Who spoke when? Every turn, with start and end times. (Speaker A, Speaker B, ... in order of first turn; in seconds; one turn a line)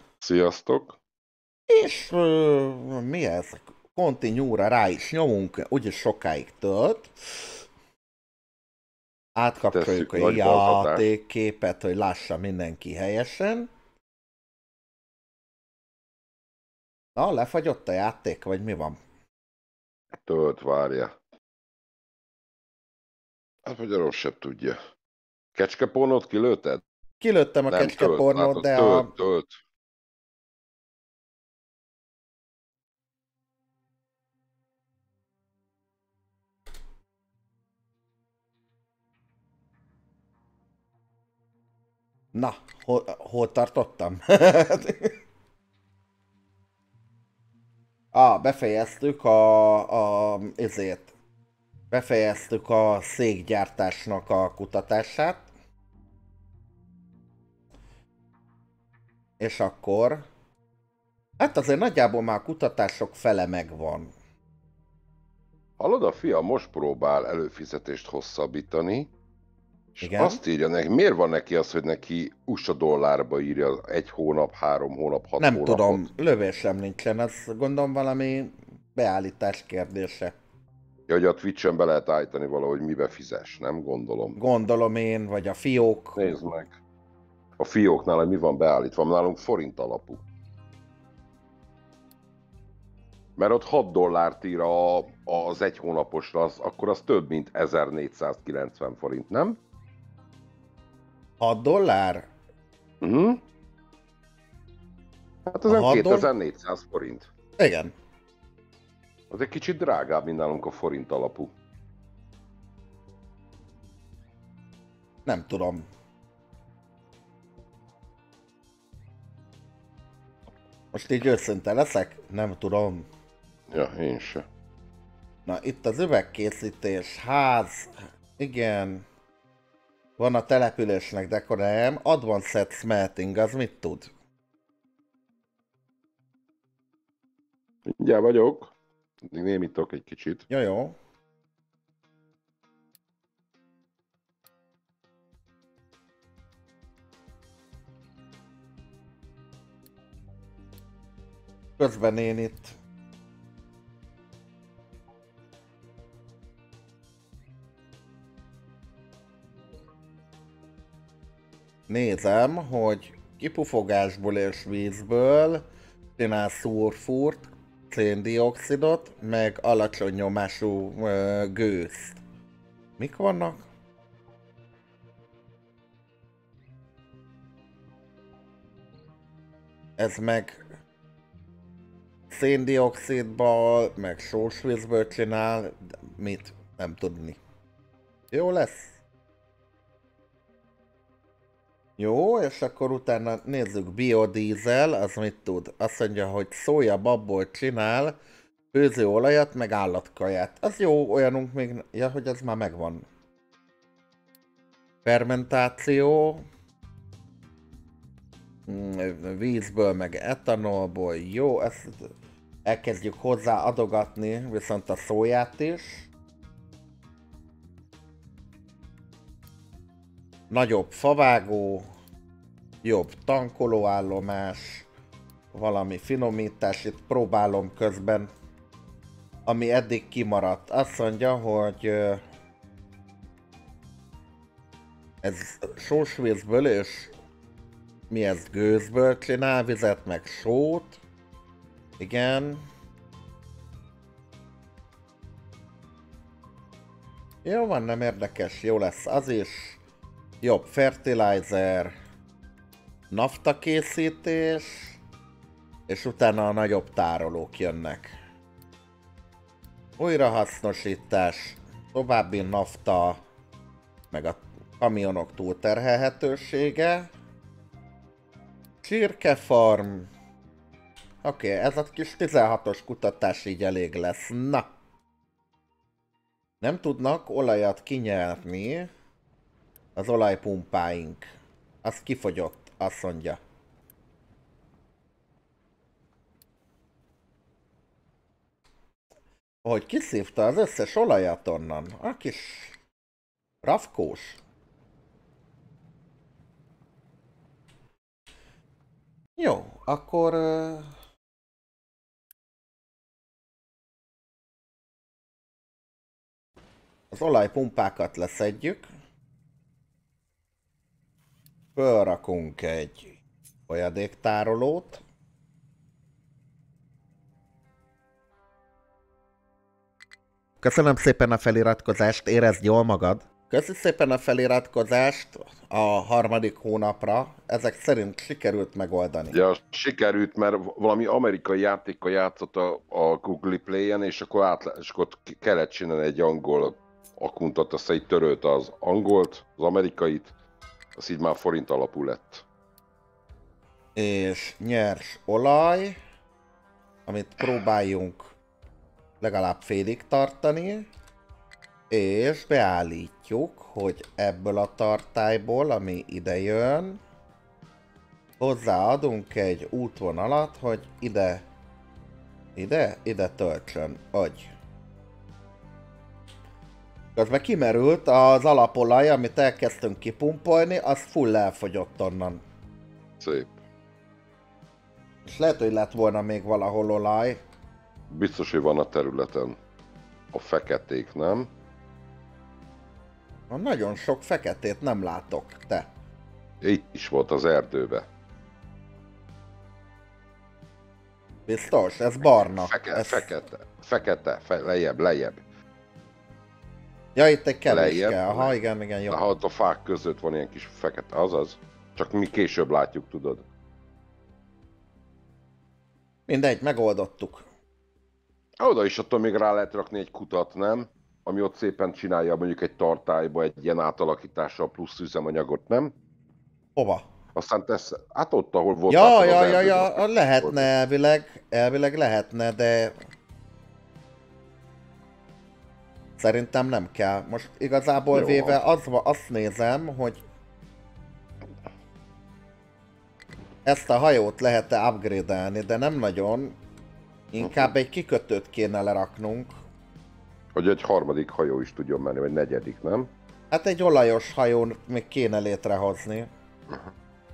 Speaker A: 0.2-1.0
Speaker B: 1.7-7.1
Speaker B: 9.3-13.7
Speaker A: 9.7-11.1
Speaker B: 17.1-19.0
Speaker A: 20.2-21.1
Speaker A: 23.6-24.8
Speaker A: 25.5-26.8
Speaker B: 27.2-29.1
Speaker A: 27.7-29.5
Speaker B: 42.3-45.1
Speaker B: 48.1-51.1
Speaker B: 51.9-55.5
Speaker B: 59.4-60.2
Speaker B: 61.4-64.1
Speaker A: 65.8-69.1
Speaker A: 69.9-76.0
Speaker B: 70.0-70.4
Speaker B: 75.4-80.3
Speaker A: 81.1-84.4
Speaker B: 84.4-86.2
Speaker A: 86.2-86.8
Speaker A: 87.6-90.2
Speaker A: 93.4-99.6
Speaker B: 101.4-102.3
Speaker A: 103.0-103.4
Speaker A: 105.5-107.3
Speaker B: 105.7-106.3
Speaker B: 107.6-107.9
Speaker A: 109.3-111.5
Speaker B: 115.2-115.8
Speaker B: 120.9-123.0
Speaker A: 123.7-124.5
Speaker B: 125.5-129.1
Speaker B: 130.2-134.1
Speaker A: 137.9-140.5
Speaker B: 140.5-140.9
Speaker B: 151.8-152.7
Speaker B: 161.9-165.6
Speaker B: 166.2-172.2
Speaker B: 173.0-173.7
Speaker B: 180.0-180.6
Speaker B: 182.3-187.4
Speaker B: 188.3-189.0
Speaker B: 192.0-198.1
Speaker B: 198.7-203.1
Speaker B: 205.0-206.4
Speaker B: 208.7-212.1
Speaker B: 212.6-216.1
Speaker B: 220.5-221.9
Speaker B: 222.8-224.9
Speaker B: 225.5-228.3
Speaker B: 229.4-232.2
Speaker B: 235.2-237.1
Speaker B: 238.1-241.0
Speaker B: 242.0-242.6
Speaker B: 247.4-249.8
Speaker B: 250.4-251.9
Speaker B: 253.1-255.0
Speaker B: 255.9-258.1
Speaker B: 260.0-263.2
Speaker B: 264.1-267.1
Speaker B: 268.8-270.1
Speaker B: 271.2-274.6
Speaker B: 276.6-278.9
Speaker B: 279.9-281.2
Speaker B: 281.8-283.4
Speaker B: 289.6-292.8
Speaker B: 293.6-294.4
Speaker B: 299.4-300.9
Speaker B: 307.1-308.9
Speaker B: 311.8-313.1
Speaker B: 313.7-315.0
Speaker B: 320.6-329.4
Speaker A: 329.3-340.3
Speaker A: 340.9-342.4
Speaker B: 343.9-345.9
Speaker B: 347.1-348.3
Speaker B: 349.2-350.8
Speaker B: 351.9-357.0
Speaker B: 358.4-361.4
Speaker B: 362.6-364.5
Speaker B: 367.1-372.4
Speaker A: 373.2-373.6
Speaker B: 375.2-377.4
Speaker A: 378.1-379.6
Speaker A: 380.3-381.5
Speaker B: 383.5-385.9
Speaker A: 386.6-388.1
Speaker B: 391.5-393.3
Speaker A: 392.4-395.4
Speaker B: 397.1-399.2
Speaker A: 397.7-398.6
Speaker A: 399.1-403.4
Speaker B: 406.3-407.4
Speaker A: 408.6-415.9
Speaker B: 416.8-417.0
Speaker A: 417.3-420.7
Speaker B: 418.9-422.9
Speaker B: 426.2-430.2
Speaker A: 428.1-428.6
Speaker B: 433.6-436.6
Speaker B: 437.3-439.5
Speaker A: 437.4-437.7
Speaker A: 440.5-443.1
Speaker B: 443.5-446.3